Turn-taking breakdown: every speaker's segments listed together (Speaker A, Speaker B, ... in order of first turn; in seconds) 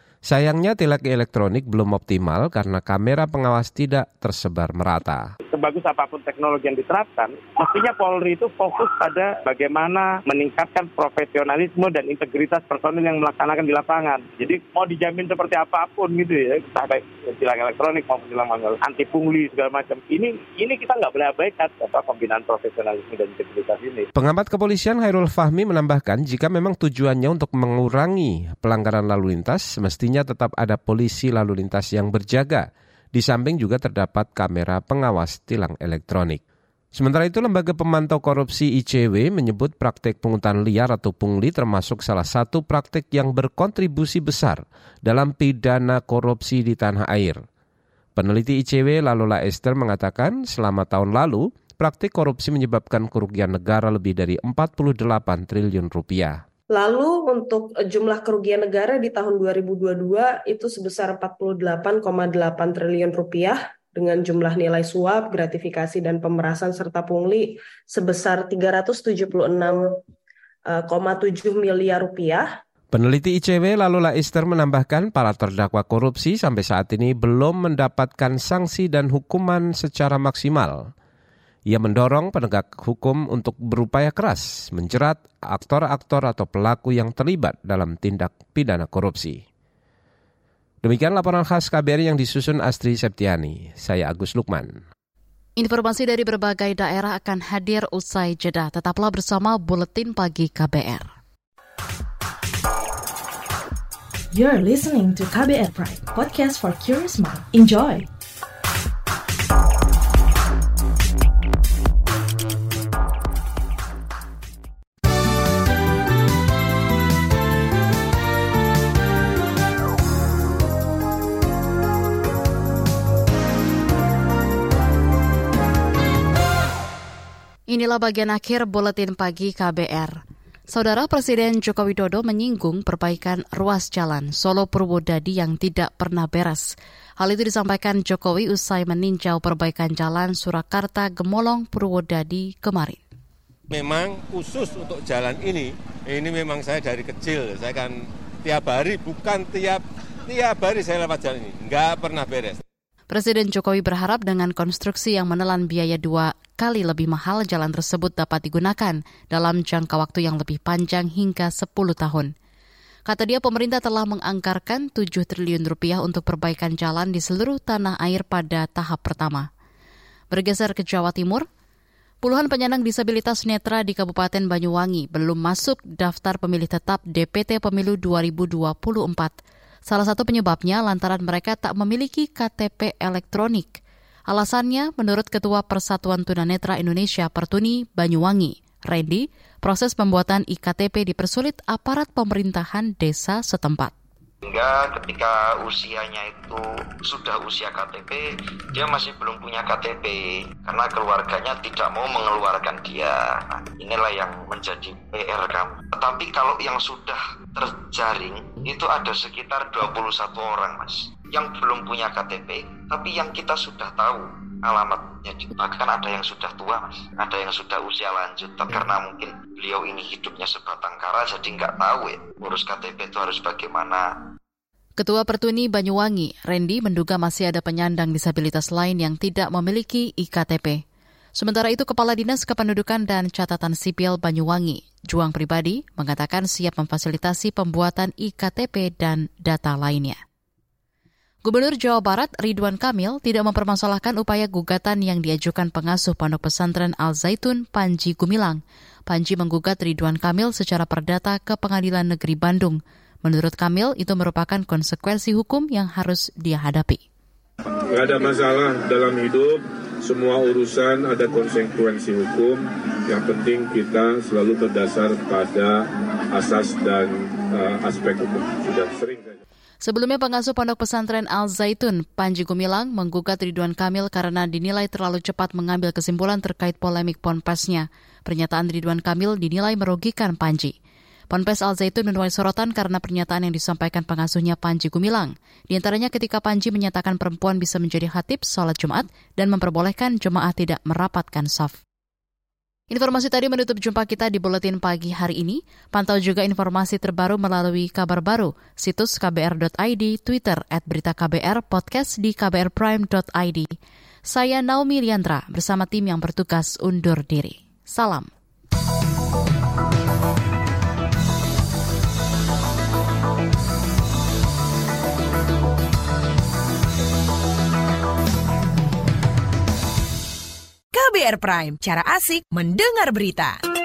Speaker A: 0.2-5.3, 24.1-36.4, 36.9-47.4, 48.2-56.4, 72.9-80.9, 81.7-89.4, 90.8-94.8
Speaker B: 5.5-24.1
Speaker C: 56.8-70.0, 70.7-72.5
Speaker D: 95.6-101.1, 127.7-130.2, 130.7-143.0, 153.1-162.3, 163.1-169.5, 170.3-171.5, 172.2-179.3, 179.9-193.9, 225.0-230.8, 231.4-240.2, 241.4-257.0, 269.8-280.8, 281.3-291.8, 292.9-303.7, 304.3-308.3
Speaker E: 104.3-108.1
Speaker F: 143.7-152.6
Speaker G: 194.4-224.1
Speaker H: 257.9-269.4
Speaker I: 320.9-323.6